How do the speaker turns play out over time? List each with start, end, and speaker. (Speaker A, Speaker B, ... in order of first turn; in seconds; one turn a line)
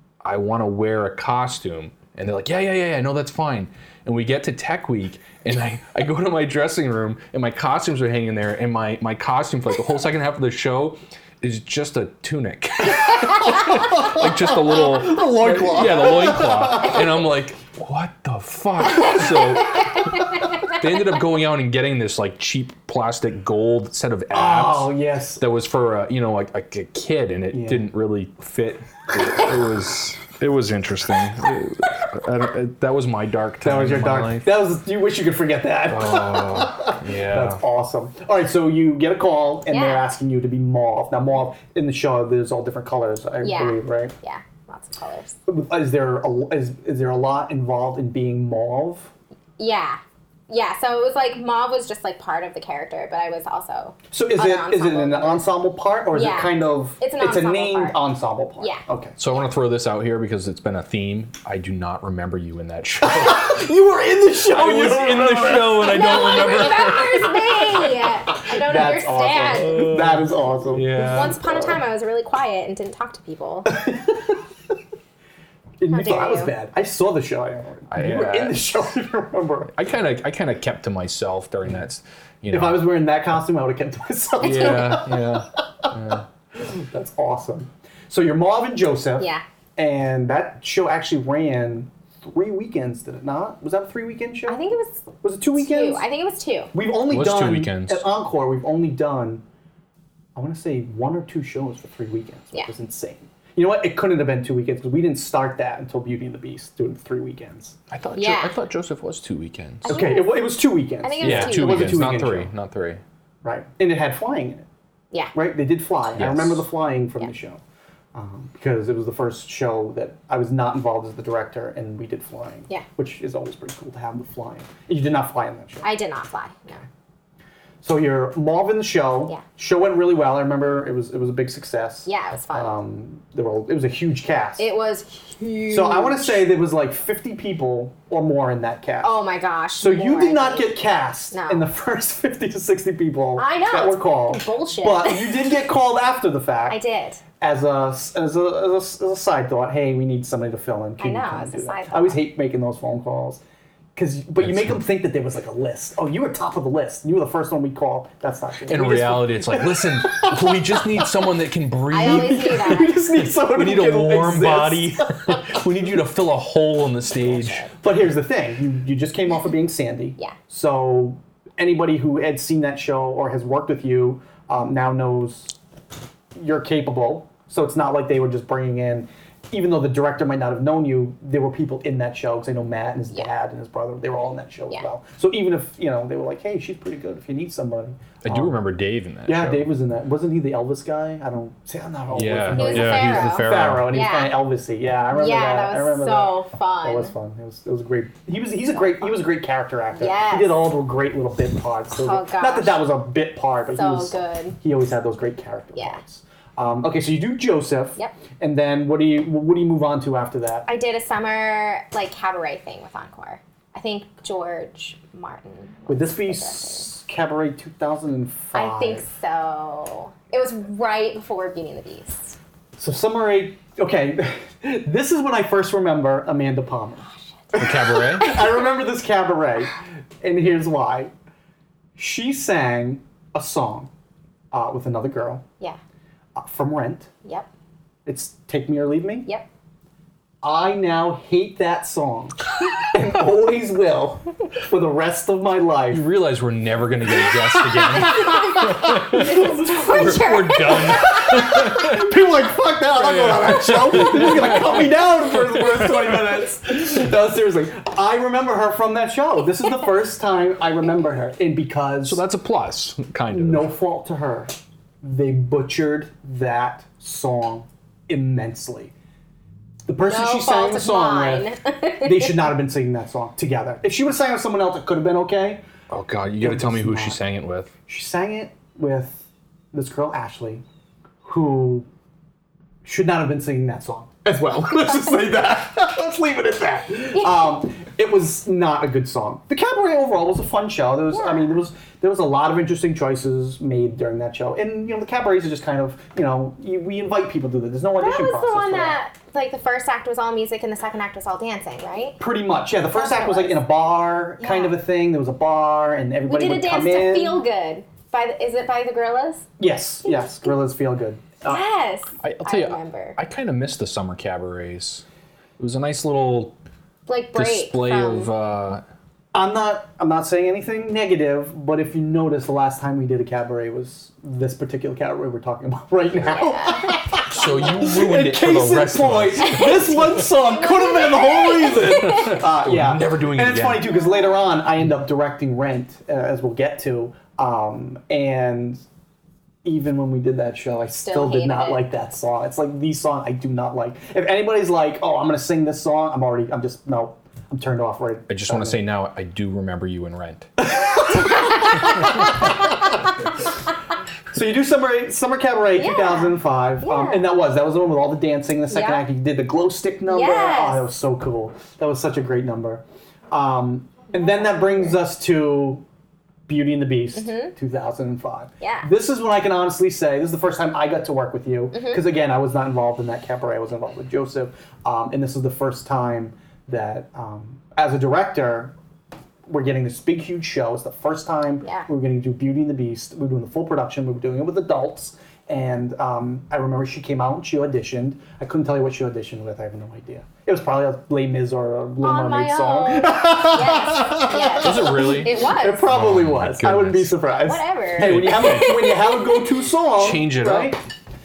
Speaker A: 0.2-34.6
Speaker B: 13.2-17.1
Speaker B: 24.3-25.4
Speaker B: 27.5-27.9
Speaker B: 33.6-44.1
Speaker A: 35.9-37.6
Speaker C: 39.7-40.0
Speaker C: 43.4-45.4
Speaker B: 45.5-49.1
Speaker C: 49.6-55.5
Speaker B: 54.1-59.2
Speaker C: 56.1-58.0
Speaker A: 59.2-63.7
Speaker B: 63.0-67.1
Speaker A: 64.4-67.4
Speaker C: 65.8-70.0
Speaker B: 68.4-71.8
Speaker A: 69.6-71.4
Speaker C: 70.9-73.7
Speaker B: 73.7-74.4
Speaker B: 75.8-79.7
Speaker C: 75.9-76.5
Speaker A: 77.9-78.6
Speaker A: 79.8-82.8
Speaker B: 82.5-85.9
Speaker A: 84.4-86.2
Speaker B: 86.5-94.6
Speaker C: 89.2-89.4
Speaker C: 94.5-96.7
Speaker B: 95.2-96.0
Speaker B: 96.7-99.4
Speaker A: 97.1-98.0
Speaker B: 100.3-107.8
Speaker A: 107.9-109.9
Speaker C: 108.2-108.6
Speaker C: 109.8-110.4
Speaker B: 109.9-112.5
Speaker C: 111.0-112.0
Speaker A: 111.2-113.0
Speaker B: 113.4-114.7
Speaker B: 115.3-117.6
Speaker A: 116.2-116.7
Speaker B: 118.1-125.9
Speaker C: 125.8-126.8
Speaker B: 127.8-134.6
Speaker C: 132.1-132.8
Speaker C: 134.6-136.4
Speaker B: 135.7-139.1
Speaker C: 139.0-140.8
Speaker B: 139.8-146.8
Speaker C: 141.3-141.7
Speaker C: 143.4-145.5
Speaker C: 146.7-147.2
Speaker B: 147.4-153.4
Speaker C: 151.0-152.2
Speaker B: 154.0-161.2
Speaker A: 154.4-154.8
Speaker A: 158.7-167.6
Speaker C: 161.9-163.0
Speaker B: 162.0-165.6
Speaker C: 167.3-167.8
Speaker B: 167.8-175.5
Speaker B: 176.4-188.6
Speaker A: 188.2-189.7
Speaker B: 189.3-210.7
Speaker A: 192.1-194.0
Speaker C: 192.5-194.4
Speaker C: 195.1-197.1
Speaker C: 200.0-200.6
Speaker C: 202.0-202.8
Speaker C: 203.8-204.6
Speaker C: 205.8-206.0
Speaker C: 210.7-216.9
Speaker B: 215.9-219.1
Speaker C: 218.5-222.4
Speaker B: 222.8-231.1
Speaker C: 227.1-228.4
Speaker A: 227.6-228.3
Speaker B: 232.0-233.9
Speaker B: 234.5-235.4
Speaker B: 236.4-237.1
Speaker B: 238.1-239.3
Speaker B: 240.4-246.1
Speaker A: 245.9-252.1
Speaker B: 247.7-250.0
Speaker C: 248.3-251.6
Speaker B: 250.7-262.2
Speaker A: 253.0-255.6
Speaker A: 262.0-263.7
Speaker B: 263.3-268.9
Speaker B: 269.9-271.5
Speaker C: 270.1-272.5
Speaker B: 272.0-275.6
Speaker A: 275.9-277.7
Speaker B: 276.4-277.2
Speaker B: 277.9-280.6
Speaker B: 281.2-281.9
Speaker B: 282.9-299.0
Speaker C: 291.1-291.6
Speaker C: 298.0-302.2
Speaker B: 302.2-307.4
Speaker C: 302.9-303.6
Speaker C: 304.4-304.8
Speaker C: 306.3-309.5
Speaker B: 309.6-311.6
Speaker C: 311.5-313.2
Speaker A: 312.2-315.0
Speaker A: 315.6-316.6
Speaker C: 317.1-318.3
Speaker A: 317.4-318.8
Speaker B: 319.3-338.8
Speaker C: 326.3-327.0
Speaker A: 327.3-330.3
Speaker C: 330.6-332.3
Speaker A: 331.8-333.9
Speaker B: 339.6-348.8
Speaker C: 341.0-341.9
Speaker A: 348.3-350.5
Speaker B: 350.6-352.4
Speaker C: 351.3-351.7
Speaker B: 354.3-365.8
Speaker C: 355.8-357.3
Speaker C: 358.7-359.0
Speaker C: 360.1-360.9
Speaker C: 364.2-364.9
Speaker B: 366.5-378.7
Speaker C: 367.1-367.5
Speaker C: 368.6-368.9
Speaker C: 371.7-372.0
Speaker B: 379.5-400.8
Speaker C: 381.6-381.9
Speaker C: 392.0-395.9
Speaker A: 394.6-395.4
Speaker A: 395.9-397.2
Speaker C: 397.4-399.5
Speaker A: 398.0-398.8
Speaker A: 399.9-400.8